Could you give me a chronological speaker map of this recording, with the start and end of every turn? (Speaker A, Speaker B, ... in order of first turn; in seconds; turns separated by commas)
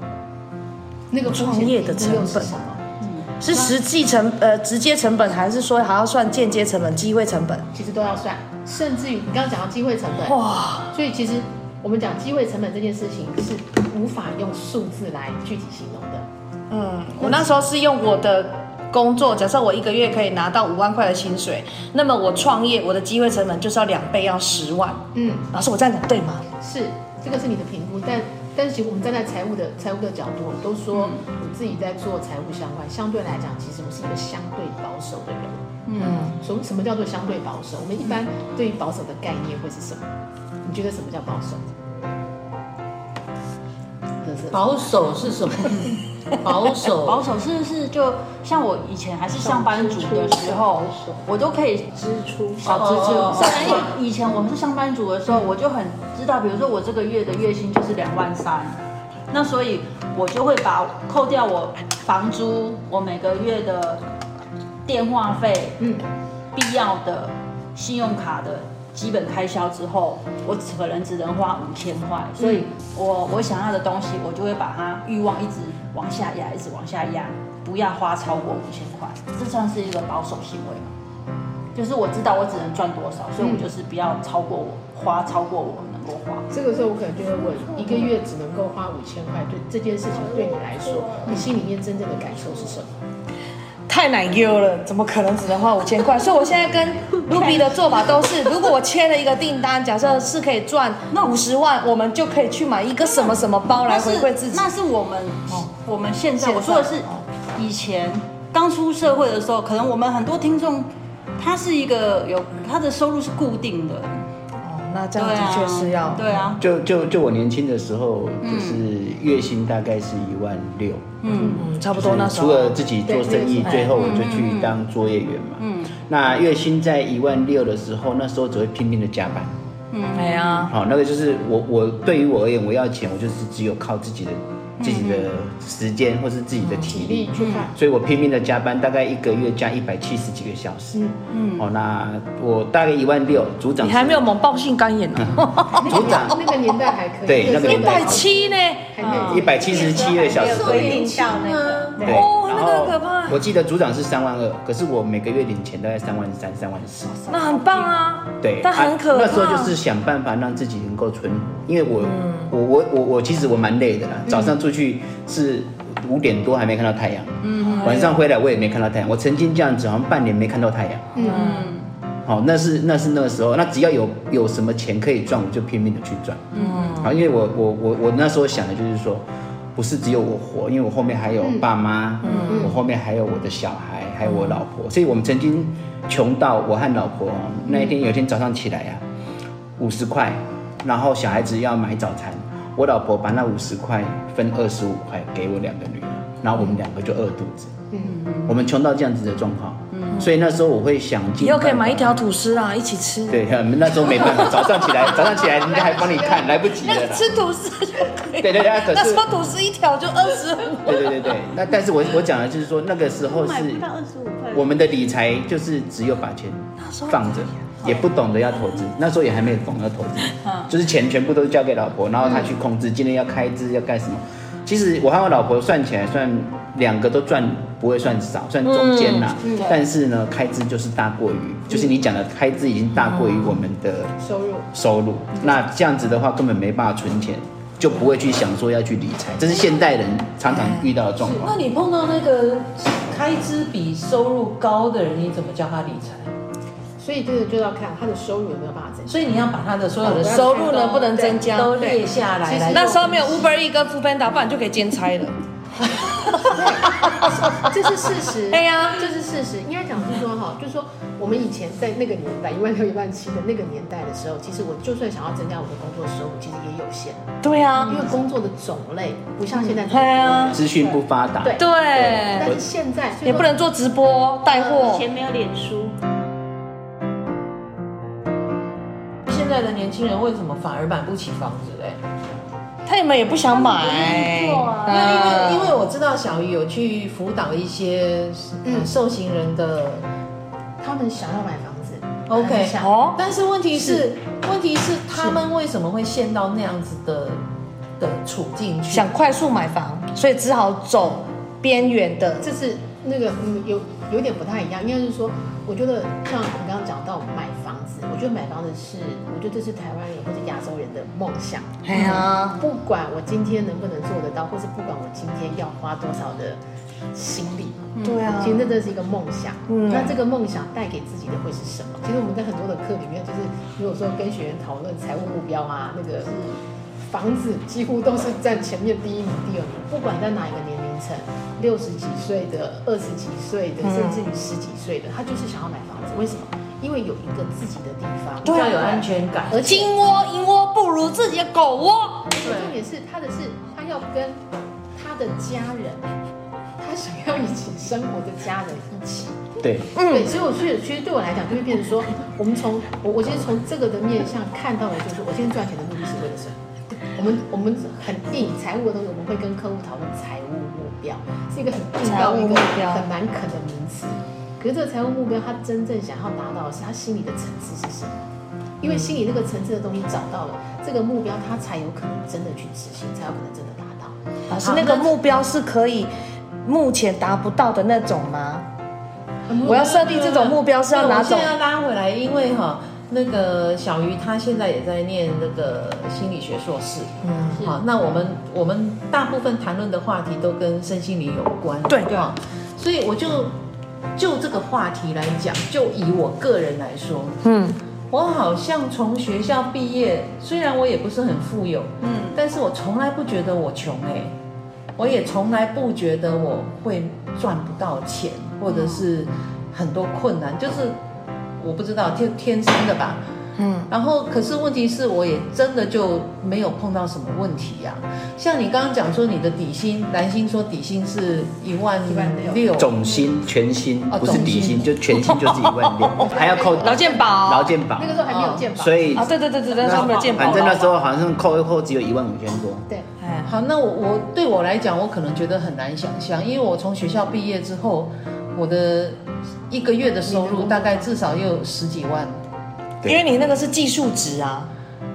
Speaker A: 1.1-2.9, Speaker B: 1.2-2.5, Speaker C: 3.0-3.3, Speaker B: 3.4-7.7, Speaker A: 3.5-3.8, Speaker A: 7.7-10.4, Speaker B: 10.2-10.9, Speaker A: 10.9-16.3, Speaker B: 16.7-26.5, Speaker A: 25.1-25.5, Speaker A: 26.6-35.6, Speaker C: 30.9-31.2, Speaker C: 35.9-36.2, Speaker B: 35.9-36.4, Speaker A: 36.4-40.1, Speaker A: 40.6-41.6, Speaker A: 44.2-45.0, Speaker D: 44.5-47.3, Speaker C: 46.9-52.0, Speaker A: 49.4-51.2, Speaker A: 52.0-53.9, Speaker C: 52.5-64.0, Speaker D: 52.6-53.8, Speaker C: 64.9-65.8, Speaker C: 66.5-80.9, Speaker A: 72.4-72.7, Speaker C: 81.8-86.5, Speaker A: 83.4-83.7, Speaker A: 86.5-92.9, Speaker B: 93.9-104.7, Speaker C: 97.1-97.8, Speaker C: 103.8-114.2, Speaker B: 106.4-107.2, Speaker B: 114.6-116.3, Speaker C: 115.2-116.6, Speaker E: 116.6-121.1, Speaker C: 118.4-118.8, Speaker C: 121.2-121.6, Speaker B: 121.4-122.8, Speaker E: 121.8-129.5, Speaker A: 123.0-123.9, Speaker B: 123.6-124.0, Speaker C: 124.0-124.8, Speaker C: 125.6-125.9, Speaker C: 129.9-130.7, Speaker B: 130.1-130.7, Speaker E: 130.7-144.3, Speaker C: 134.8-135.3, Speaker A: 136.8-137.7, Speaker C: 137.4-137.7, Speaker C: 141.3-141.7, Speaker B: 143.8-146.5, Speaker E: 145.2-146.4, Speaker A: 145.7-150.6, Speaker E: 147.3-148.2, Speaker B: 147.4-148.9, Speaker C: 149.0-152.0, Speaker E: 149.2-151.1, Speaker D: 150.3-152.1, Speaker B: 150.8-151.4, Speaker A: 152.0-152.2, Speaker B: 152.0-153.4, Speaker E: 152.0-157.3, Speaker C: 157.2-157.9, Speaker B: 157.3-159.7, Speaker E: 158.4-171.1, Speaker B: 162.0-162.5, Speaker A: 164.3-164.6, Speaker C: 167.4-168.1, Speaker B: 167.6-168.2, Speaker A: 171.1-171.6, Speaker B: 171.2-171.8, Speaker C: 171.3-171.8, Speaker E: 172.2-179.2, Speaker C: 176.5-176.9, Speaker B: 176.6-177.1, Speaker E: 179.8-189.0, Speaker A: 181.4-181.7, Speaker B: 182.2-182.7, Speaker A: 182.3-182.8, Speaker B: 184.3-184.6, Speaker E: 189.8-197.8, Speaker A: 197.9-198.2, Speaker C: 198.0-198.6, Speaker E: 198.5-202.2, Speaker C: 199.9-200.2, Speaker B: 201.4-203.4, Speaker E: 203.3-207.3, Speaker B: 203.9-205.0, Speaker A: 205.1-207.0, Speaker B: 206.8-211.3, Speaker E: 208.3-209.3, Speaker E: 210.8-213.9, Speaker C: 213.2-214.8, Speaker E: 214.5-234.2, Speaker B: 216.8-217.3, Speaker C: 220.4-220.7, Speaker A: 222.2-222.5, Speaker B: 228.7-229.3, Speaker A: 229.4-229.8, Speaker B: 233.1-233.5, Speaker A: 234.2-234.7, Speaker E: 234.7-241.5, Speaker B: 240.5-240.9, Speaker D: 241.3-246.3, Speaker A: 247.0-249.3, Speaker D: 249.1-250.8, Speaker A: 250.0-251.4, Speaker B: 250.2-252.0, Speaker D: 251.3-253.1, Speaker A: 252.4-253.5, Speaker B: 252.7-257.8, Speaker A: 256.4-273.5, Speaker B: 258.5-259.1, Speaker B: 267.4-268.1, Speaker B: 269.8-270.6, Speaker E: 270.5-272.6, Speaker B: 271.6-272.5, Speaker B: 273.2-275.1, Speaker C: 274.5-275.9, Speaker D: 279.3-282.0, Speaker B: 282.9-285.8, Speaker C: 283.5-285.2, Speaker D: 284.9-290.1, Speaker A: 288.6-288.9, Speaker A: 290.8-293.0, Speaker D: 292.3-297.4, Speaker B: 292.8-293.2, Speaker A: 293.8-294.1, Speaker D: 298.0-299.1, Speaker B: 298.9-302.5, Speaker A: 302.4-316.6, Speaker B: 311.8-312.6, Speaker A: 317.1-326.4, Speaker C: 317.9-318.3, Speaker B: 318.0-318.8, Speaker B: 319.7-320.2, Speaker C: 326.3-326.6, Speaker A: 327.1-339.9, Speaker B: 333.8-334.3, Speaker B: 338.4-338.8, Speaker D: 338.4-339.6, Speaker B: 339.6-342.3, Speaker A: 342.3-344.4, Speaker A: 344.9-346.1, Speaker A: 346.8-349.5, Speaker E: 349.6-349.9, Speaker B: 349.9-350.3, Speaker A: 350.0-368.2, Speaker B: 362.0-363.0, Speaker A: 368.8-374.2, Speaker B: 374.5-376.1, Speaker D: 374.6-375.2, Speaker B: 376.6-378.7, Speaker A: 379.5-380.0, Speaker D: 379.6-393.6, Speaker B: 379.6-381.5, Speaker B: 387.2-387.6, Speaker D: 394.2-397.4, Speaker B: 397.4-397.8, Speaker D: 398.1-404.4, Speaker C: 402.0-402.4, Speaker D: 405.0-411.0, Speaker C: 408.7-409.1, Speaker D: 411.6-413.2, Speaker B: 413.6-413.9, Speaker D: 413.9-422.9, Speaker A: 422.1-422.7, Speaker E: 422.8-428.2, Speaker D: 424.1-424.9, Speaker B: 425.1-426.2, Speaker A: 426.2-430.8, Speaker B: 426.8-427.8, Speaker D: 428.3-428.6, Speaker E: 428.7-432.9, Speaker B: 429.1-430.9, Speaker C: 429.9-430.6, Speaker B: 433.2-433.5, Speaker D: 433.4-442.4, Speaker A: 440.3-441.1, Speaker B: 443.1-444.7